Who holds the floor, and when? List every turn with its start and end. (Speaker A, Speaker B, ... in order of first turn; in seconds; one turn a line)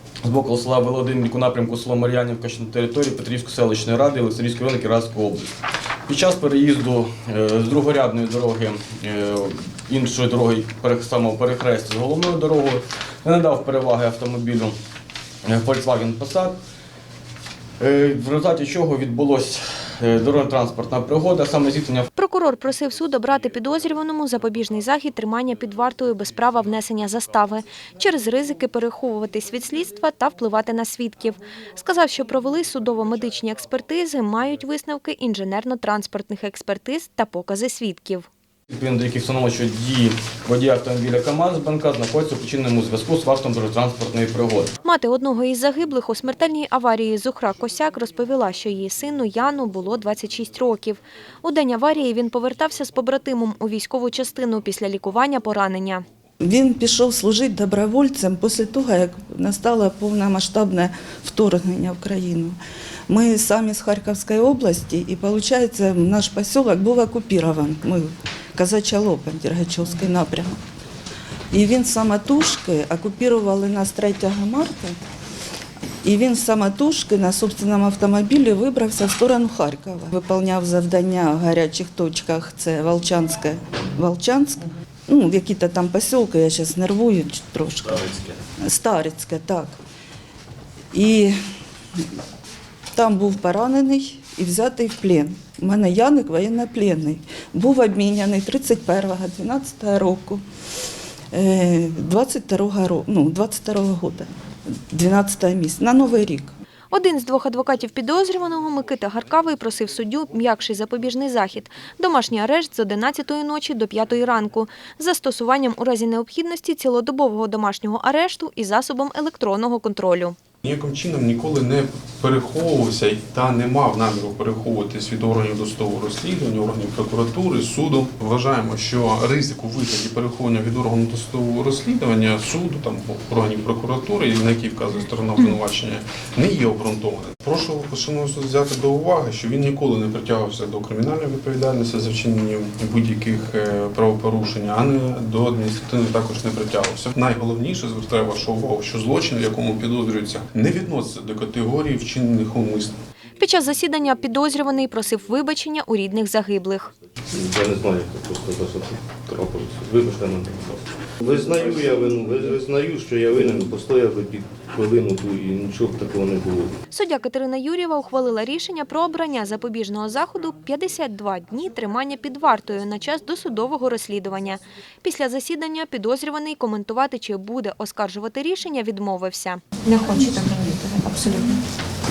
Speaker A: 0.2-5.5
Speaker A: 6.1-14.8
Speaker A: 15.5-16.6
Speaker A: 17.8-22.1
Speaker B: 22.2-38.3
Speaker A: 38.7-44.7
Speaker B: 44.8-56.0
Speaker C: 56.4-70.6
Speaker C: 71.5-75.0
Speaker C: 76.0-89.8
Speaker C: 90.9-91.3
Speaker C: 93.0-100.4
Speaker C: 101.3-104.3
Speaker C: 104.9-106.5
Speaker B: 106.9-120.4
Speaker D: 120.6-153.0
Speaker B: 153.4-156.9
Speaker E: 157.3-166.7
Speaker B: 166.9-181.6